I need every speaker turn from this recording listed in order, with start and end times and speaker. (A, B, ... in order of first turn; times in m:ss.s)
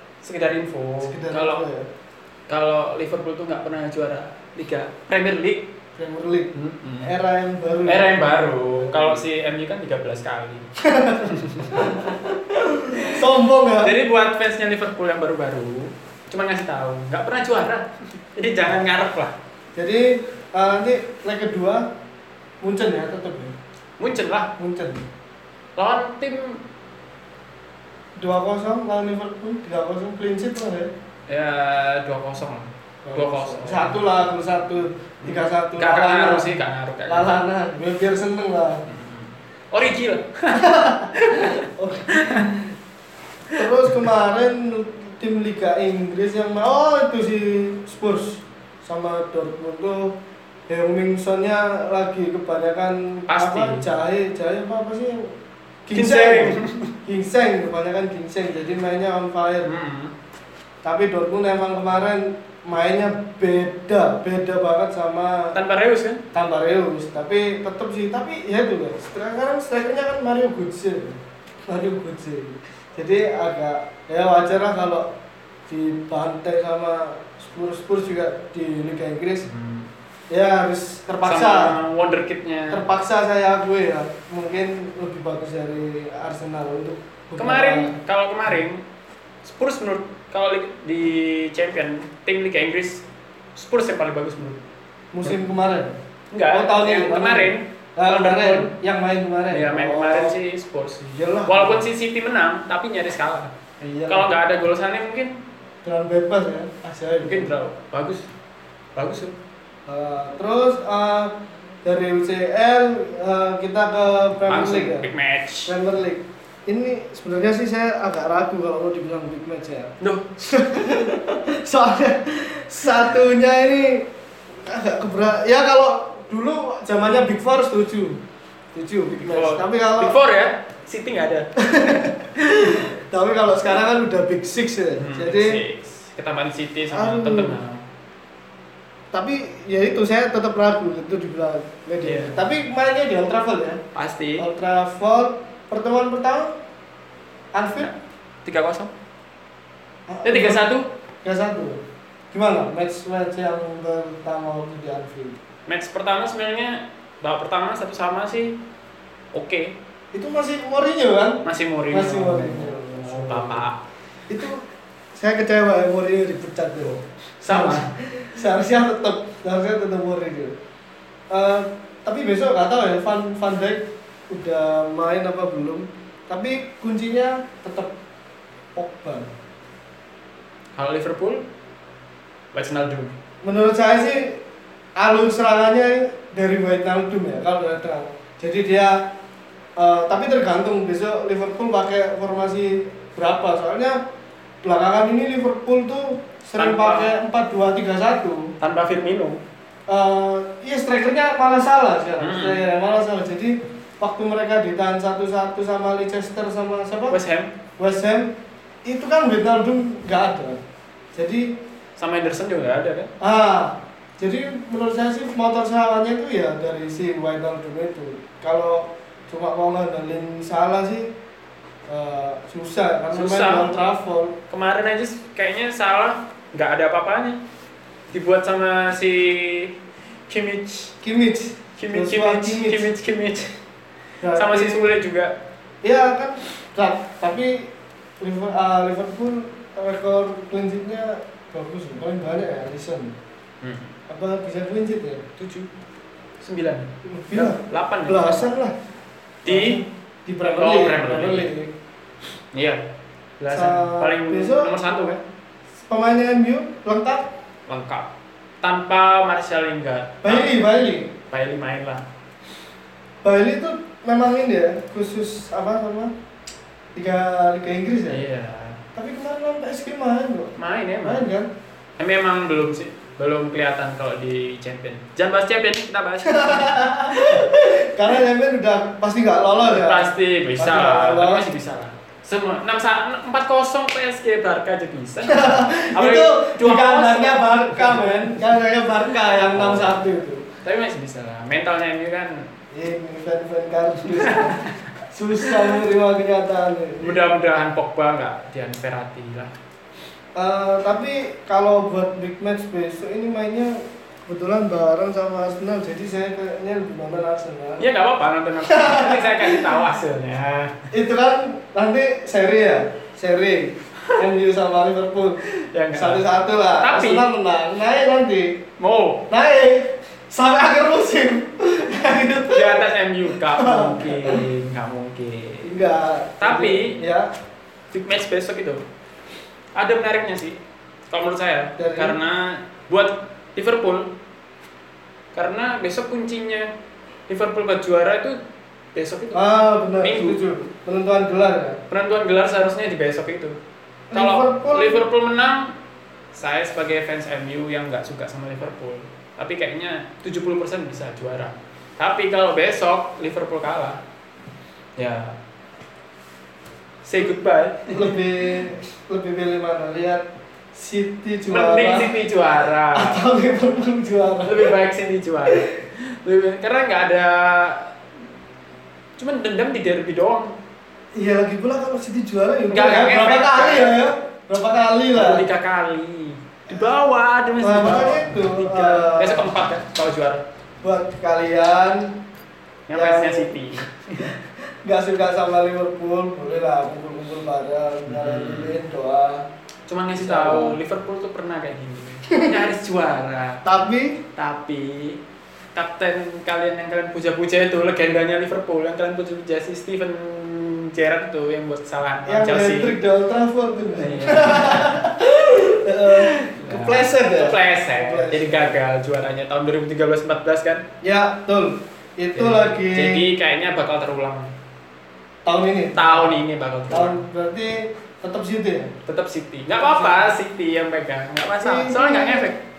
0:00.2-0:01.6 A
0:01.0-0:01.9 B
0:02.5-0:05.7 A
0:06.0-0:09.2 B
0:06.5-0:07.1 A
0:07.8-0:10.7 A
0:10.8-0:14.0 B
0:11.2-0:12.0 A
0:12.9-0:13.2 A
0:13.8-0:19.3 A
0:19.7-0:21.9 B
0:22.6-0:23.6 B
0:24.0-0:24.5 A
0:24.6-0:25.0 B
0:25.8-0:26.6 A
0:28.2-0:30.9 B
0:31.3-0:34.0 A
0:33.0-0:36.5 B
0:35.2-0:37.4 A
0:37.1-0:38.8 B
0:38.9-0:42.5 A
0:40.5-0:42.6 B
0:43.5-0:43.9 A
0:43.5-0:50.2 B
0:50.7-0:55.3 B
0:53.3-0:53.8 A
0:55.9-0:59.7 B
0:55.9-0:56.9 A
0:59.6-1:00.1 A
1:00.8-1:05.6 B
1:05.5-1:06.2 A
1:06.3-1:15.1 B
1:15.7-1:19.5 B
1:19.4-1:19.9 A
1:20.3-1:21.7 B
1:21.2-1:22.8 A
1:22.7-1:27.9 B
1:27.4-1:28.8 A
1:29.4-1:34.6 A
1:35.1-1:35.9 B
1:36.3-1:38.7 A
1:36.5-1:40.4 B
1:39.5-1:43.5 A
1:41.0-1:41.8 B
1:43.8-1:44.3 B
1:44.1-1:45.4 A
1:45.8-1:47.5 B
1:47.2-1:48.3 A
1:49.0-1:49.3 A
1:49.9-1:55.1 B
1:54.5-1:55.7 A
1:55.6-2:08.2 B
2:00.0-2:00.3 A
2:08.7-2:10.2 B
2:09.2-2:11.5 A
2:11.6-2:15.6 B
2:15.0-2:17.8 A
2:16.9-2:17.6 B
2:19.1-2:23.8 B
2:22.0-2:22.4 A
2:23.9-2:24.5 A
2:24.4-2:26.5 B
2:27.5-2:27.9 B
2:28.4-2:28.9 A
2:30.1-2:30.6 B
2:30.2-2:30.9 A
2:31.2-2:35.4 B
2:35.7-2:38.6 A
2:39.3-2:39.7 A
2:40.1-2:43.6 B
2:41.4-2:43.8 A
2:44.3-2:44.6 B
2:45.2-2:50.6 B
2:46.8-2:47.9 A
2:51.3-2:57.9 B
2:58.8-2:59.3 B
3:00.8-3:01.4 A
3:02.5-3:03.1 A
3:03.4-3:04.4 B
3:05.0-3:09.1 B
3:09.8-3:14.0 B
3:14.6-3:18.5 B
3:16.6-3:17.1 A
3:18.6-3:19.4 A
3:19.9-3:27.2 B
3:22.2-3:22.7 A
3:27.1-3:27.5 A
3:27.8-3:28.3 B
3:28.8-3:30.6 B
3:31.1-3:31.6 B
3:32.0-3:33.1 A
3:33.2-3:41.1 B
3:41.9-3:44.4 B
3:43.1-3:43.8 A
3:44.5-3:47.4 A
3:48.1-3:49.7 A
3:50.3-3:50.9 A
3:51.0-3:52.9 B
3:51.8-3:53.5 A
3:54.2-3:54.9 B
3:54.3-3:55.3 A
3:55.8-4:03.1 B
4:03.6-4:03.9 A
4:04.1-4:05.2 B
4:05.4-4:05.7 A
4:06.4-4:08.5 A
4:07.0-4:08.7 B
4:09.4-4:09.8 A
4:09.4-4:11.7 B
4:10.4-4:11.5 A
4:12.5-4:12.8 A
4:13.4-4:15.2 A
4:13.5-4:14.7 B
4:15.8-4:17.3 B
4:17.7-4:18.1 A
4:18.6-4:20.5 A
4:20.2-4:21.1 B
4:21.3-4:22.0 A
4:23.2-4:26.1 B
4:26.9-4:28.2 B
4:28.1-4:28.8 A
4:28.9-4:30.5 B
4:30.6-4:31.3 A
4:31.0-4:31.5 B
4:32.0-4:37.4 A
4:36.3-4:41.5 B
4:39.6-4:48.4 A
4:45.2-4:50.4 B
4:49.5-4:50.0 A
4:50.6-4:52.5 A
4:52.7-4:57.2 B
4:54.1-4:54.7 A
4:55.4-4:55.7 A
4:57.0-4:59.5 A
5:00.3-5:07.8 B
5:07.8-5:10.9 A
5:08.7-5:09.8 B
5:10.9-5:15.4 B
5:15.5-5:16.2 A
5:15.9-5:18.6 B
5:16.8-5:17.3 A
5:18.8-5:19.3 A
5:19.3-5:22.8 B
5:22.5-5:25.7 A
5:23.4-5:24.4 B
5:25.6-5:27.3 B
5:26.4-5:27.0 A
5:27.9-5:28.8 A
5:29.7-5:30.6 A
5:31.1-5:34.1 A
5:31.8-5:32.2 B
5:35.3-5:36.7 A
5:37.3-5:38.4 A
5:38.9-5:39.4 A
5:39.3-5:41.8 B
5:40.0-5:40.4 A
5:41.9-5:43.6 A
5:44.1-5:45.0 B
5:44.1-5:45.7 A
5:46.3-5:54.0 A
5:55.0-5:55.4 A
5:57.0-5:58.2 A
5:57.9-6:02.2 B
6:01.5-6:03.2 A
6:02.9-6:04.8 B
6:04.4-6:07.9 A
6:09.2-6:10.5 A
6:11.1-6:15.4 B
6:12.7-6:14.0 A
6:15.1-6:20.4 A
6:17.6-6:19.5 B
6:20.8-6:22.1 B
6:22.9-6:24.3 A
6:22.9-6:23.6 B
6:24.2-6:29.5 B
6:28.1-6:28.8 A
6:29.9-6:33.6 A
6:30.2-6:30.8 B
6:32.3-6:32.6 B
6:33.6-6:34.2 B
6:34.4-6:35.2 A
6:35.7-6:43.0 A
6:42.2-6:48.8 B
6:43.9-6:45.0 A
6:46.0-6:50.8 A
6:51.0-6:53.2 B
6:52.3-6:54.5 A
6:55.4-6:58.9 B
6:55.9-6:57.2 A
6:59.0-7:02.6 A
6:59.8-7:00.3 B
7:01.6-7:02.5 B